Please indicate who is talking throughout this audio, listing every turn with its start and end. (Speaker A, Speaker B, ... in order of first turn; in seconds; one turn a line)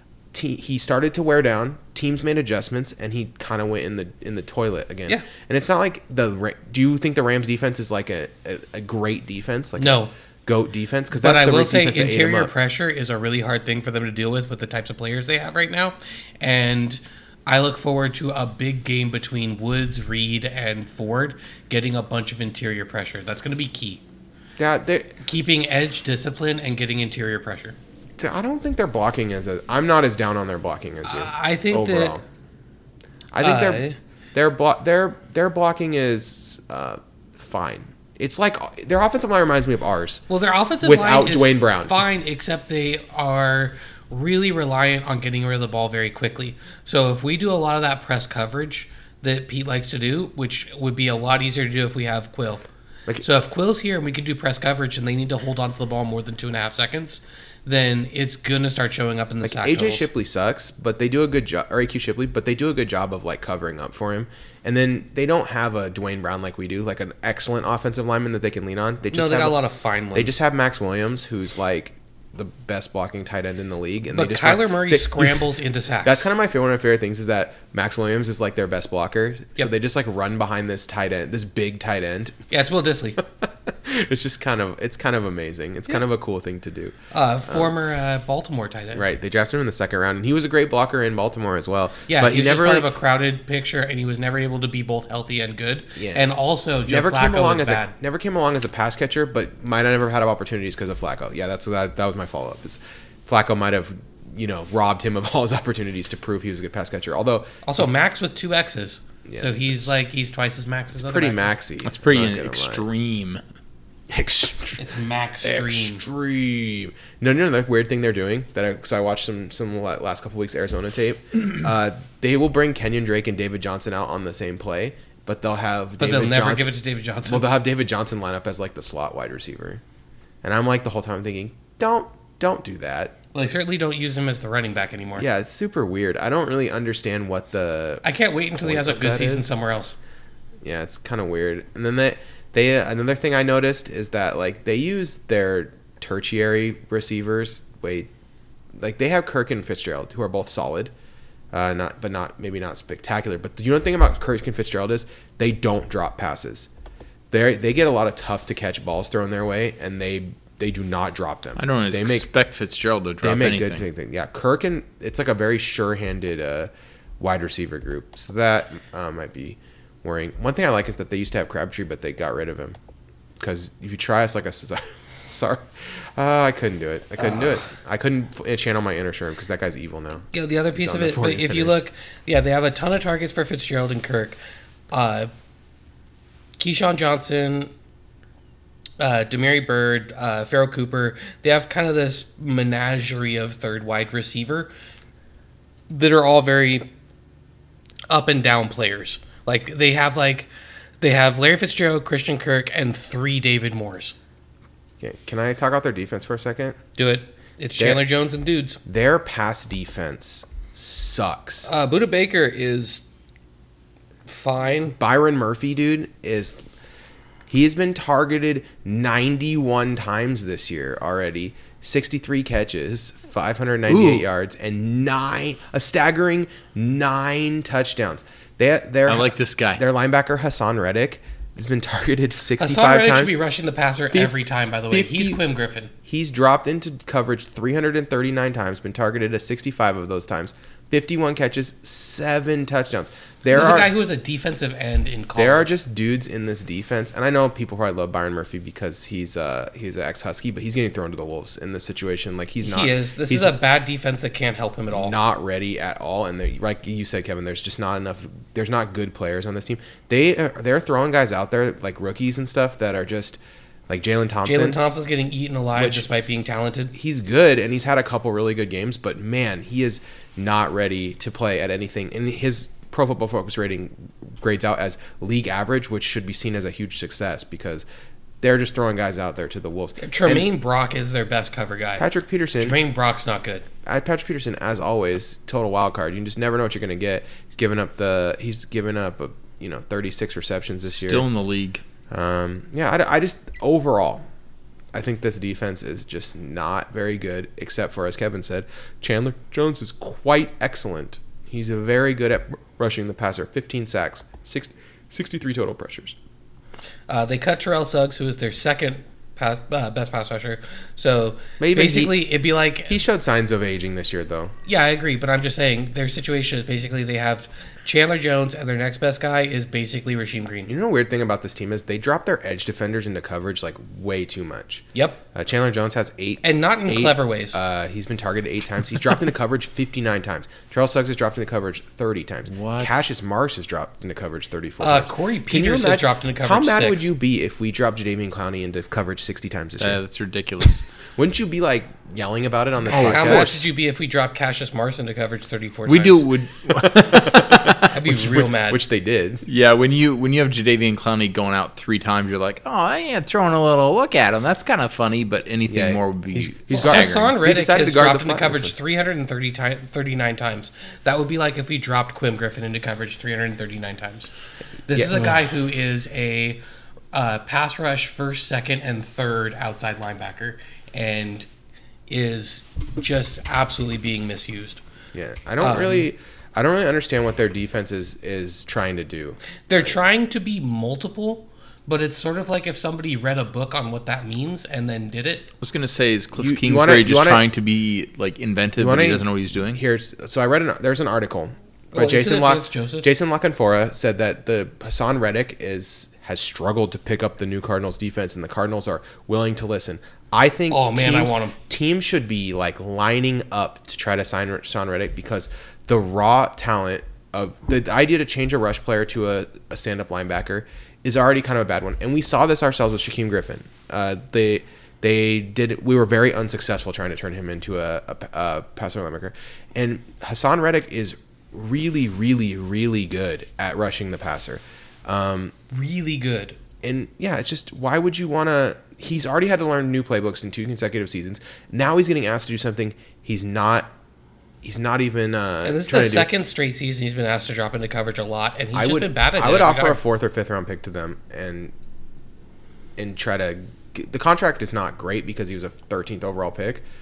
Speaker A: 0.3-12.5
Speaker B: 9.8-10.1
Speaker B: 11.2-24.0
Speaker A: 24.6-25.2
Speaker B: 25.2-27.8
Speaker A: 28.2-32.2
Speaker B: 31.1-32.2
Speaker A: 33.3-40.2
Speaker B: 33.4-34.0
Speaker B: 40.3-52.6
Speaker A: 40.8-42.0
Speaker B: 53.2-60.1
Speaker A: 59.4-69.6
Speaker B: 69.1-70.4
Speaker A: 70.1-75.5
Speaker B: 74.1-76.2
Speaker A: 76.0-82.5
Speaker B: 82.5-83.2
Speaker A: 83.2-87.0
Speaker B: 87.1-89.0
Speaker A: 87.5-87.7
Speaker A: 88.9-92.9
Speaker B: 92.1-97.9
Speaker A: 96.0-96.3
Speaker A: 96.9-108.0
Speaker B: 107.7-111.6
Speaker A: 109.3-109.9
Speaker A: 110.9-112.8
Speaker C: 111.8-113.4
Speaker A: 114.1-114.8
Speaker B: 114.8-116.0
Speaker A: 115.4-126.7
Speaker B: 126.0-127.5
Speaker A: 127.3-129.8
Speaker A: 130.4-133.2
Speaker B: 133.3-135.3
Speaker A: 135.2-138.0
Speaker B: 138.0-140.0
Speaker A: 138.6-139.6
Speaker A: 140.6-148.1
Speaker A: 148.8-150.9
Speaker A: 151.5-156.7
Speaker A: 157.3-162.3
Speaker C: 161.6-163.8
Speaker A: 163.2-172.8
Speaker A: 173.4-181.8
Speaker B: 180.3-184.4
Speaker B: 184.9-185.3
Speaker B: 186.6-187.7
Speaker B: 189.0-194.7
Speaker B: 195.9-196.9
Speaker B: 198.1-200.5
Speaker B: 201.0-204.2
Speaker A: 205.0-206.8
Speaker B: 207.0-208.8
Speaker A: 207.8-208.0
Speaker A: 208.8-211.7
Speaker B: 211.7-213.0
Speaker B: 214.3-215.0
Speaker A: 215.0-216.6
Speaker A: 217.5-233.4
Speaker C: 223.9-224.2
Speaker C: 229.1-229.8
Speaker B: 232.6-235.9
Speaker A: 234.9-235.4
Speaker A: 236.1-243.9
Speaker B: 243.5-245.8
Speaker A: 245.4-253.6
Speaker B: 252.6-255.2
Speaker A: 254.9-264.8
Speaker B: 264.4-266.9
Speaker A: 265.8-266.1
Speaker A: 266.9-277.9
Speaker A: 278.4-280.5
Speaker B: 280.0-282.1
Speaker A: 282.0-282.8
Speaker B: 282.6-283.7
Speaker A: 283.9-291.3
Speaker C: 290.9-291.8
Speaker A: 292.1-294.3
Speaker A: 294.9-306.2
Speaker B: 307.1-313.0
Speaker A: 311.6-312.3
Speaker A: 312.9-314.5
Speaker B: 314.7-320.7
Speaker A: 320.7-340.0
Speaker B: 324.9-325.2
Speaker B: 326.4-327.6
Speaker C: 332.5-333.0
Speaker B: 334.8-337.1
Speaker C: 339.8-340.8
Speaker A: 341.2-343.7
Speaker C: 342.9-343.6
Speaker B: 342.9-346.3
Speaker C: 345.9-348.0
Speaker A: 346.8-349.4
Speaker B: 347.7-348.8
Speaker C: 349.5-357.4
Speaker A: 355.7-358.7
Speaker B: 356.7-364.3
Speaker B: 364.9-366.6
Speaker A: 364.9-365.4
Speaker B: 367.1-371.5
Speaker B: 372.1-374.8
Speaker A: 375.1-379.4
Speaker B: 375.6-376.1
Speaker B: 379.7-385.5
Speaker C: 385.6-389.8
Speaker A: 386.4-387.4
Speaker A: 388.8-425.6
Speaker B: 391.9-393.1
Speaker B: 400.7-401.6
Speaker B: 425.7-426.6
Speaker A: 426.8-433.9
Speaker A: 434.6-436.3
Speaker B: 435.6-440.0
Speaker A: 438.7-441.7
Speaker A: 443.0-446.8